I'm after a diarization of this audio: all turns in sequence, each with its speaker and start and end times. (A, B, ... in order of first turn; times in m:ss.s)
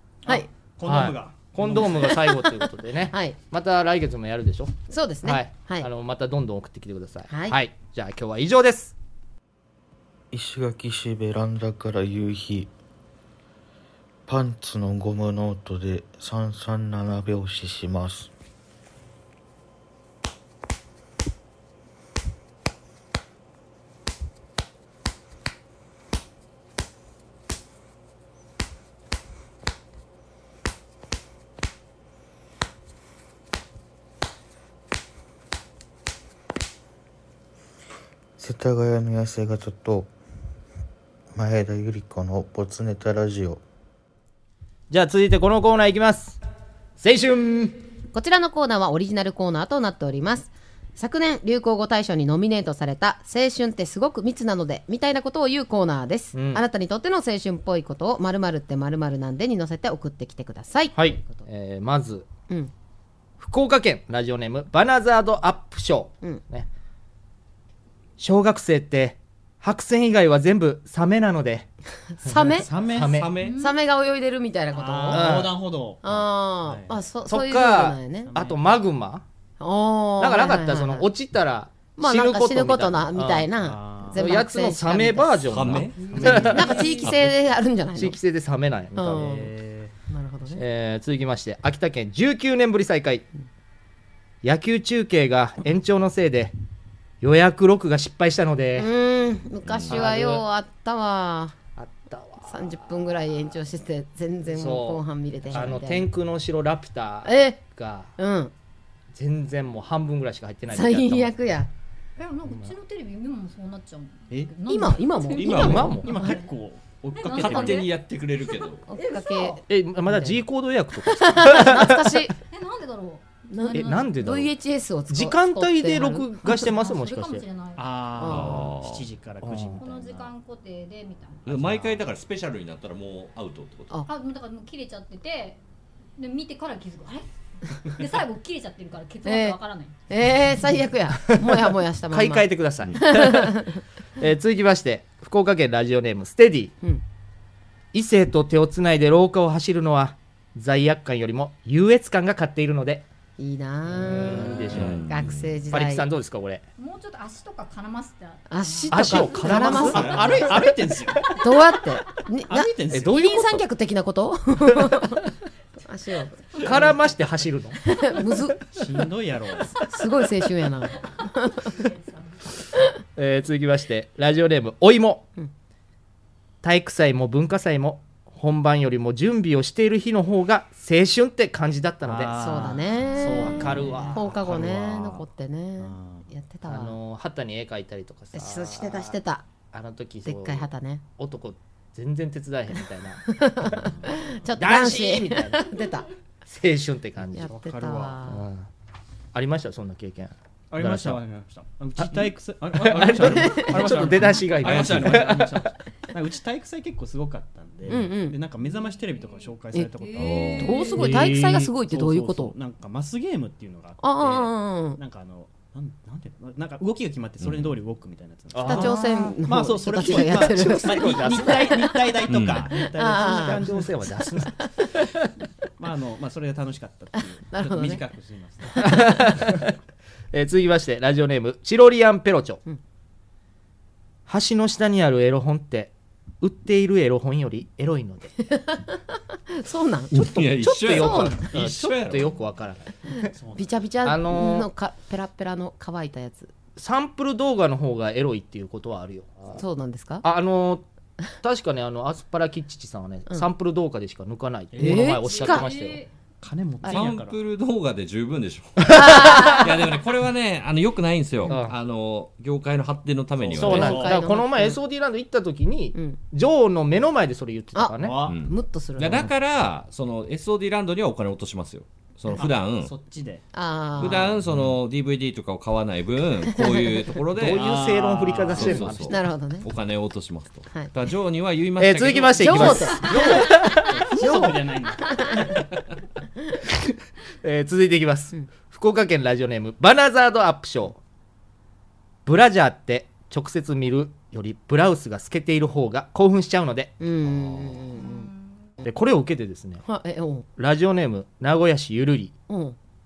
0:00.3-0:02.2 A
0:00.8-0:08.9 B
0:02.0-0:02.4 C
0:03.1-0:03.4 C
0:04.9-0:05.9 C
0:07.3-0:07.6 C
0:10.3-0:12.7 D
0:14.3-0:18.3 D
0:38.4-0:40.1 D
0:41.3-0:43.6 D
0:44.9-0:46.4 B
0:47.0-0:47.8 B
0:48.1-1:01.4 C
0:56.3-0:56.6 B
1:01.0-1:02.3 B
1:03.4-1:06.7 B
1:08.2-1:11.7 B
1:12.2-1:12.7 C
1:12.2-1:13.3 B
1:12.6-1:13.3 A
1:13.0-1:13.5 E
1:13.4-1:13.8 F
1:13.6-1:15.4 C
1:14.7-1:17.0 A
1:15.1-1:15.6 B
1:16.0-1:18.3 C
1:17.3-1:19.2 B
1:18.3-1:18.7 A
1:19.6-1:21.1 C
1:20.2-1:23.5 B
1:22.0-1:25.5 C
1:23.6-1:24.2 A
1:24.1-1:27.3 B
1:25.5-1:26.5 E
1:26.0-1:27.1 A
1:26.2-1:28.2 C
1:28.0-1:29.5 B
1:29.0-1:29.5 C
1:29.1-1:29.9 A
1:30.1-1:30.6 C
1:30.5-1:33.2 B
1:34.4-1:36.5 B
1:37.2-1:38.9 B
1:38.8-1:41.6 C
1:39.7-1:40.0 E
1:39.9-1:40.4 B
1:41.8-1:42.8 B
1:42.4-1:46.1 C
1:44.5-1:48.1 B
1:47.2-1:47.6 C
1:48.2-1:48.5 C
1:49.1-1:51.4 B
1:50.7-1:51.7 C
1:52.2-1:56.5 F
1:54.7-1:56.3 C
1:55.4-1:57.9 A
1:55.4-1:55.9 E
1:55.5-1:56.1 B
1:57.2-1:58.0 F
1:57.3-1:58.8 E
1:58.5-1:59.6 F
1:58.9-2:00.4 C
1:59.7-2:02.2 B
2:01.1-2:02.3 C
2:02.5-2:04.2 F
2:03.5-2:06.7 C
2:03.7-2:04.5 B
2:05.1-2:07.4 B
2:06.5-2:07.8 F
2:07.8-2:10.3 A
2:08.2-2:08.7 C
2:08.3-2:09.1 E
2:09.4-2:09.8 B
2:09.8-2:11.5 F
2:11.5-2:14.0 E
2:11.6-2:11.9 A
2:14.1-2:15.6 F
2:16.2-2:17.3 F
2:17.9-2:20.0 F
2:19.2-2:23.8 C
2:21.3-2:23.5 B
2:24.2-2:26.7 B
2:27.9-2:33.1 B
2:33.4-2:36.1 C
2:33.9-2:35.1 B
2:34.7-2:35.5 E
2:35.7-2:36.6 B
2:36.8-2:40.6 F
2:38.5-2:40.5 C
2:38.9-2:40.5 B
2:39.2-2:41.3 A
2:41.3-2:45.2 C
2:42.5-2:43.3 A
2:42.9-2:43.5 B
2:45.8-2:47.0 C
2:46.6-2:47.8 B
2:47.8-2:48.6 C
2:48.7-2:49.8 A
2:49.8-2:51.7 C
2:51.2-2:52.4 F
2:53.2-2:55.3 B
2:56.6-3:02.6 B
3:02.0-3:04.8 A
3:02.4-3:07.0 C
3:03.2-3:05.2 B
3:05.8-3:06.3 A
3:06.7-3:09.2 B
3:08.3-3:09.4 C
3:09.7-3:10.7 B
3:10.2-3:11.0 C
3:11.2-3:13.9 B
3:13.3-3:16.1 C
3:13.8-3:14.1 A
3:14.6-3:15.7 B
3:16.4-3:17.5 B
3:17.3-3:18.4 C
3:17.4-3:18.2 A
3:18.2-3:18.7 B
3:19.3-3:21.2 B
3:20.7-3:43.9 A
3:22.7-3:25.6 B
3:23.4-3:23.7 C
3:24.7-3:25.2 E
3:27.9-3:28.4 C
3:28.7-3:30.9 F
3:30.2-3:30.9 E
3:30.6-3:32.5 C
3:34.0-3:35.0 C
3:37.4-3:37.8 E
3:38.5-3:39.0 B
3:38.6-3:42.2 C
3:40.0-3:41.8 B
3:42.3-3:42.7 E
3:42.7-3:43.6 C
3:43.2-3:45.1 B
3:44.2-3:44.7 C
3:45.8-3:49.4 A
3:47.5-3:48.0 C
3:48.8-3:49.7 B
3:50.3-3:52.6 B
3:54.3-3:58.3 B
3:58.5-3:58.8 C
3:59.5-4:00.2 C
4:00.1-4:02.4 E
4:00.1-4:03.3 B
4:00.7-4:01.4 C
4:03.2-4:03.8 A
4:03.6-4:06.5 C
4:04.0-4:04.7 B
4:06.8-4:09.6 B
4:09.5-4:10.2 C
4:10.2-4:10.8 B
4:11.4-4:16.0 B
4:14.7-4:15.2 A
4:14.8-4:15.7 C
4:15.2-4:16.1 F
4:16.4-4:17.4 A
4:16.9-4:24.1 E
4:18.9-4:19.5 B
4:18.9-4:19.7 C
4:21.5-4:21.8 B
4:23.4-4:24.2 A
4:23.6-4:28.3 B
4:23.7-4:24.8 C
4:26.0-4:26.2 C
4:27.8-4:29.3 C
4:28.0-4:28.4 A
4:28.3-4:32.9 E
4:32.4-4:33.4 A
4:33.5-4:34.3 C
4:34.0-4:37.7 E
4:36.6-4:36.9 C
4:37.3-4:39.2 B
4:37.4-4:38.9 A
4:38.5-4:42.9 E
4:39.1-4:39.7 C
4:41.8-4:44.5 B
4:42.4-4:43.4 C
4:43.0-4:45.6 A
4:46.7-4:51.0 B
4:52.2-4:57.0 B
4:57.0-4:58.3 C
4:58.0-4:58.5 F
4:58.8-4:59.8 B
4:59.8-5:00.5 C
5:00.6-5:02.3 B
5:02.5-5:02.8 C